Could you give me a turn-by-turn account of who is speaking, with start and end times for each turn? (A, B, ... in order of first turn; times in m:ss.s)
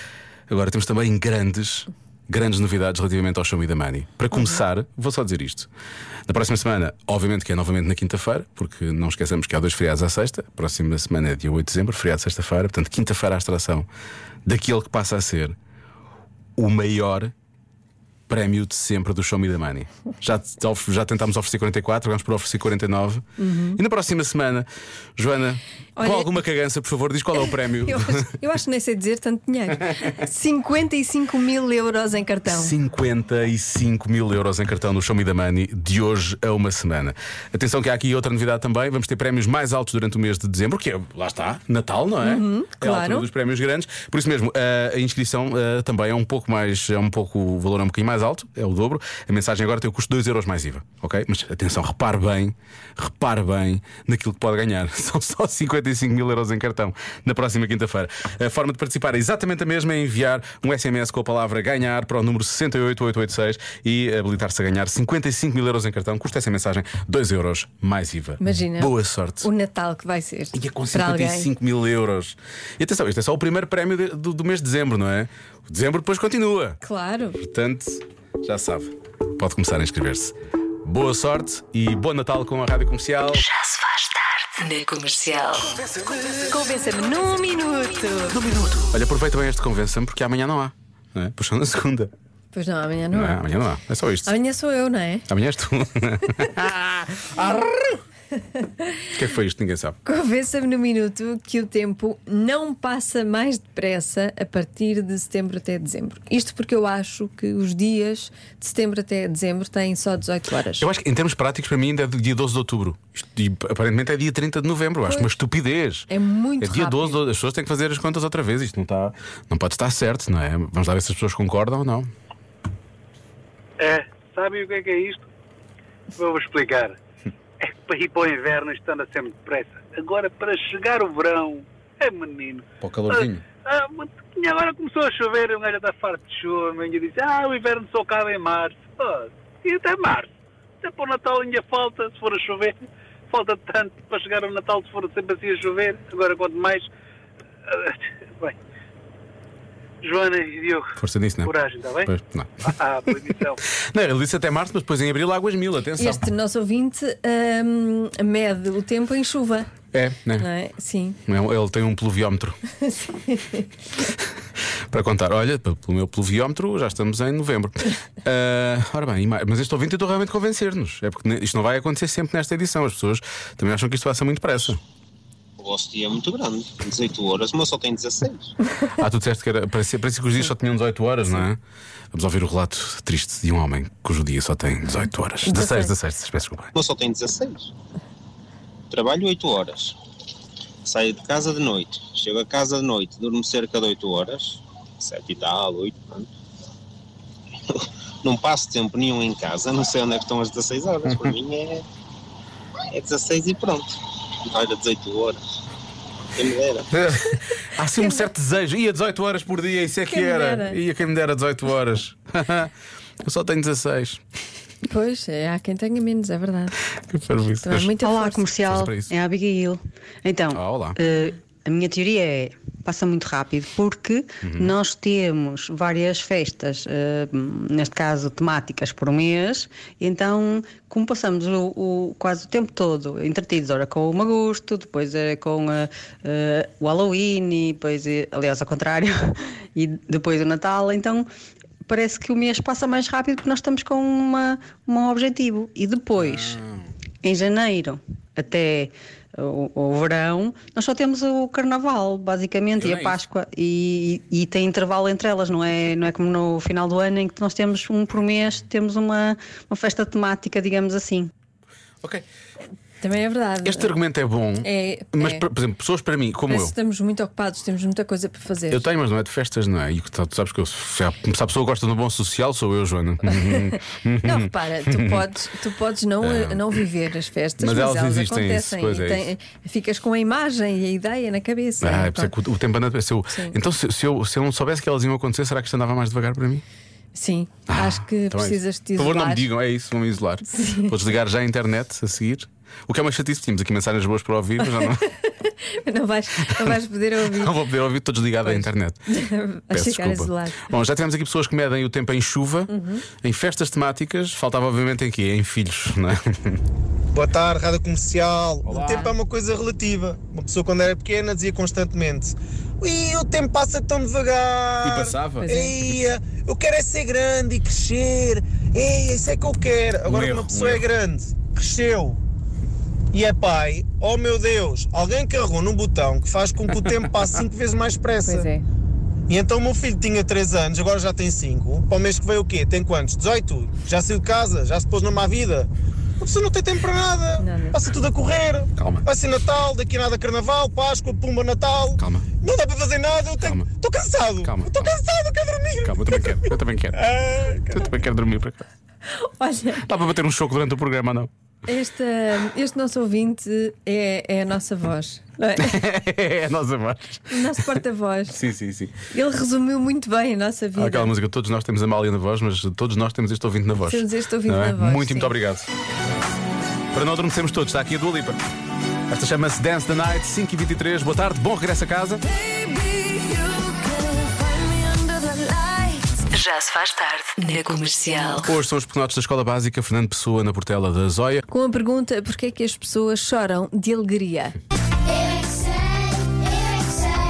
0:00.5-0:05.7 A
0:06.3-0:13.9 A
0:14.5-0:15.6 A
0:16.6-0:17.3 A
0:18.3-0:23.2 A
0:23.4-0:23.8 B
0:23.8-0:28.3 A
0:26.0-0:26.4 B
0:27.6-0:32.8 B
0:32.5-1:09.5 A
0:42.2-0:43.3 B
1:08.4-1:11.5 B
1:10.5-1:16.8 A
1:16.8-1:17.4 B
1:17.4-1:23.5 A
1:23.4-1:25.7 C
1:26.4-1:28.4 B
1:28.3-1:32.1 A
1:32.5-1:33.4 B
1:33.1-1:34.3 A
1:34.2-1:35.3 B
1:35.3-1:38.0 A
1:39.1-1:40.0 A
1:40.0-1:50.9 B
1:50.8-1:56.1 A
1:55.0-1:55.4 B
1:56.1-1:57.2 B
1:56.6-2:02.1 A
2:03.8-2:05.2 D
2:06.2-2:07.0 D
2:07.6-2:20.3 D
2:12.8-2:13.4 A
2:20.8-2:22.8 D
2:23.3-2:26.9 D
2:27.7-2:28.6 D
2:30.0-2:32.1 D
2:31.0-2:31.5 A
2:32.0-2:32.7 A
2:32.6-2:33.6 D
2:33.9-2:36.3 A
2:36.0-2:39.7 B
2:39.9-2:40.5 A
2:40.4-2:41.2 B
2:41.3-2:42.6 A
2:44.9-2:54.8 A
2:55.6-2:58.5 E
2:58.8-3:01.6 A
3:02.1-3:06.7 A
3:05.5-3:05.9 B
3:06.7-3:07.7 E
3:08.9-3:10.0 E
3:10.8-3:16.3 E
3:18.2-3:21.8 E
3:21.1-3:21.4 A
3:22.9-3:24.0 E
3:24.5-3:25.4 E
3:26.4-3:26.9 E
3:26.9-3:32.7 A
3:30.1-3:30.8 B
3:33.2-3:34.2 A
3:34.9-3:36.8 B
3:37.1-3:38.0 A
3:37.6-3:38.5 B
3:38.0-4:01.3 F
3:38.6-3:39.1 A
3:40.5-3:41.0 A
3:44.4-3:44.7 A
4:01.8-4:06.6 F
4:06.2-4:06.9 A
4:07.2-4:21.3 F
4:12.8-4:13.2 A
4:23.0-4:24.0 B
4:23.6-4:26.7 A
4:24.6-4:25.4 B
4:26.5-4:28.8 B
4:28.7-4:35.2 A
4:33.4-4:42.3 B
4:36.2-4:36.8 A
4:37.6-4:39.3 A
4:41.8-4:46.6 A
4:43.3-4:43.6 B
4:47.2-4:49.5 B
4:47.7-4:55.1 A
4:50.5-4:51.0 B
4:54.6-4:57.6 B
4:56.5-4:59.0 A
4:58.4-5:00.8 B
4:59.7-5:06.6 A
5:02.7-5:03.1 B
5:07.1-5:22.2 G
5:08.6-5:09.1 A
5:14.8-5:15.6 A
5:15.4-5:15.8 B
5:20.1-5:20.9 A
5:23.1-5:28.5 G
5:28.2-5:28.6 B
5:29.3-5:47.9 G
5:37.4-5:37.8 B
5:38.8-5:39.0 A
5:42.0-5:42.3 A
5:43.4-5:43.7 A
5:44.4-5:44.9 A
5:45.8-5:47.0 A
5:47.7-5:48.7 A
5:49.1-5:49.8 B
5:49.8-5:51.3 A
5:51.7-5:55.8 B
5:55.6-5:57.8 A
5:57.3-5:58.4 B
5:58.3-5:59.0 A
5:59.1-6:01.1 B
6:00.8-6:05.7 A
6:03.9-6:05.4 B
6:06.9-6:08.4 A
6:09.1-6:12.2 A
6:16.2-6:18.5 C
6:18.4-6:21.4 A
6:21.5-6:24.6 B